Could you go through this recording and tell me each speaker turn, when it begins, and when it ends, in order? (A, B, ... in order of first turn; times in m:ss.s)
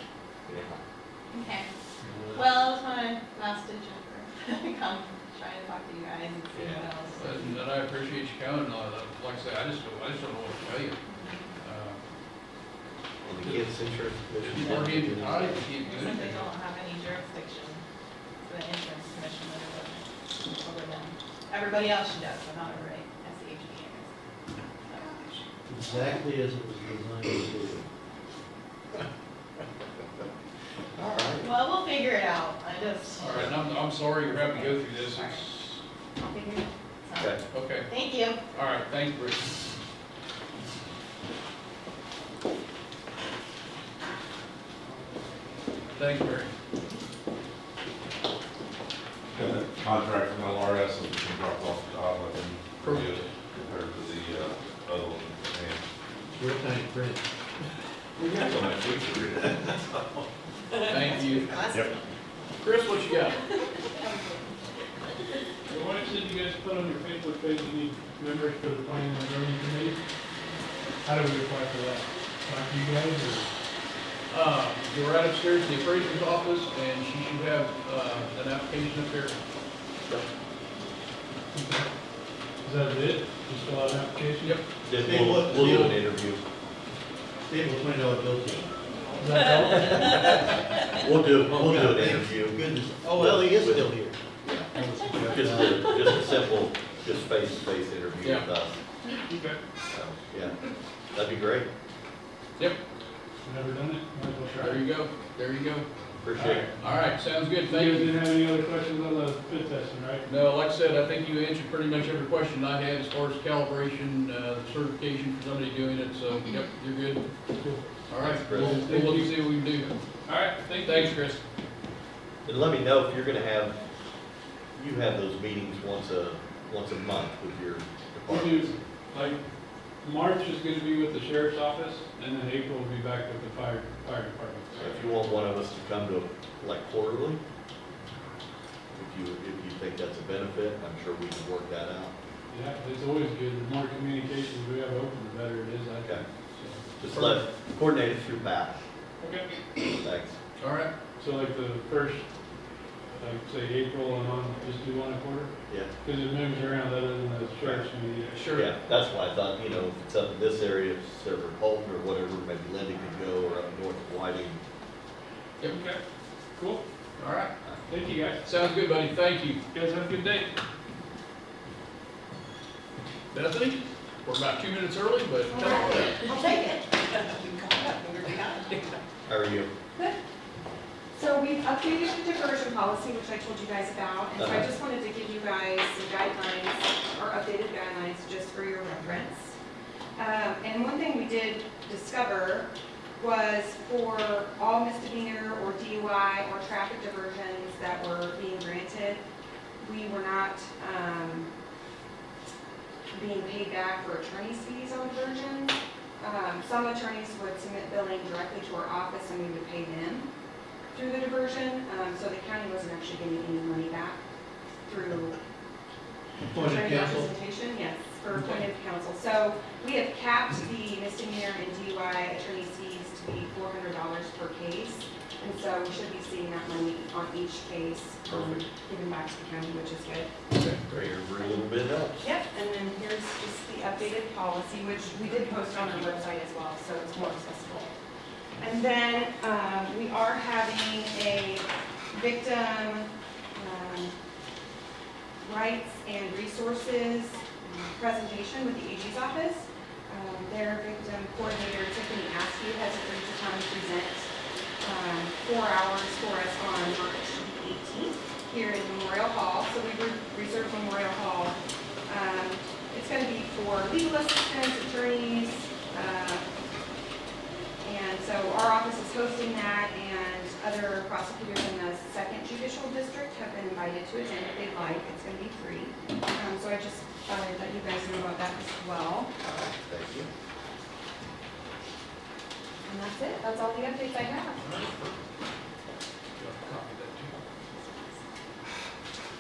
0:00.5-0:00.8 A
0:01.3-0:01.7 B
0:02.0-0:02.5 C
0:02.3-0:07.6 B
0:06.5-0:06.9 A
0:07.1-0:11.0 D
0:11.1-0:11.5 B
0:11.6-0:12.0 D
0:13.3-0:15.5 A
0:13.4-0:14.6 E
0:14.4-0:16.5 D
0:15.8-0:17.8 B
0:18.5-0:24.1 B
0:24.9-0:25.4 B
0:25.7-0:27.9 C
0:31.0-0:31.5 A
0:31.4-0:33.3 B
0:33.2-0:35.8 D
0:37.5-0:39.5 D
0:37.9-0:38.4 B
0:46.0-0:46.5 D
0:49.3-0:55.8 F
0:52.8-0:53.3 D
0:56.3-0:57.2 C
0:58.2-0:59.7 A
1:00.9-1:01.6 D
1:01.6-1:01.9 B
1:02.6-1:03.5 D
1:05.7-1:10.0 G
1:11.0-1:13.5 G
1:14.3-1:19.4 D
1:21.5-1:21.9 G
1:22.6-1:24.6 G
1:24.8-1:26.4 A
1:25.0-1:26.0 C
1:25.1-1:25.9 E
1:27.5-1:28.7 C
1:29.2-1:30.2 G
1:31.0-1:32.6 A
1:31.4-1:34.2 C
1:31.5-1:32.2 E
1:33.2-1:34.7 A
1:34.8-1:36.2 C
1:35.3-1:38.8 A
1:36.3-1:36.6 E
1:38.2-1:38.5 E
1:39.2-1:39.6 G
1:39.9-1:40.5 A
1:41.1-1:41.7 A
1:43.4-1:44.9 G
1:44.6-1:45.9 D
1:46.2-1:46.6 A
1:46.4-1:46.8 G
1:46.8-1:48.2 D
1:47.6-1:50.3 G
1:50.2-1:57.3 D
1:58.1-1:59.9 D
1:58.2-1:58.6 A
1:58.5-1:59.4 G
2:00.3-2:01.0 G
2:00.8-2:01.4 D
2:02.4-2:03.8 A
2:04.8-2:08.7 A
2:08.3-2:09.4 G
2:10.0-2:14.8 G
2:14.8-2:17.4 A
2:19.0-2:22.1 A
2:22.5-2:26.8 G
2:27.0-2:28.8 A
2:27.1-2:27.4 D
2:29.2-2:29.5 G
2:30.0-2:30.3 A
2:30.6-2:30.9 D
2:31.2-2:32.2 G
2:33.2-2:35.5 G
2:36.0-2:38.5 G
2:38.3-2:38.7 D
2:38.5-2:44.6 A
2:45.7-2:46.0 G
2:46.6-2:46.8 G
2:47.2-2:47.5 D
2:47.9-2:48.4 G
2:48.4-2:49.6 D
2:49.7-2:50.5 G
2:53.3-2:56.2 D
2:55.5-2:56.2 E
2:55.9-2:58.8 B
2:59.3-2:59.7 A
2:59.9-3:00.2 E
3:01.1-3:09.6 E
3:10.2-3:19.3 E
3:19.8-3:21.5 E
3:23.1-3:30.3 E
3:30.9-3:34.2 E
3:34.9-3:35.4 E
3:36.5-3:37.3 C
3:36.6-3:50.4 E
3:50.7-3:52.2 A
3:51.1-3:57.9 E
3:58.6-4:04.2 E
4:05.4-4:14.3 E
4:14.8-4:26.5 E
4:27.8-4:40.3 E
4:39.6-4:40.3 A
4:42.8-4:44.6 E
4:44.6-4:45.2 D
4:46.4-4:47.4 D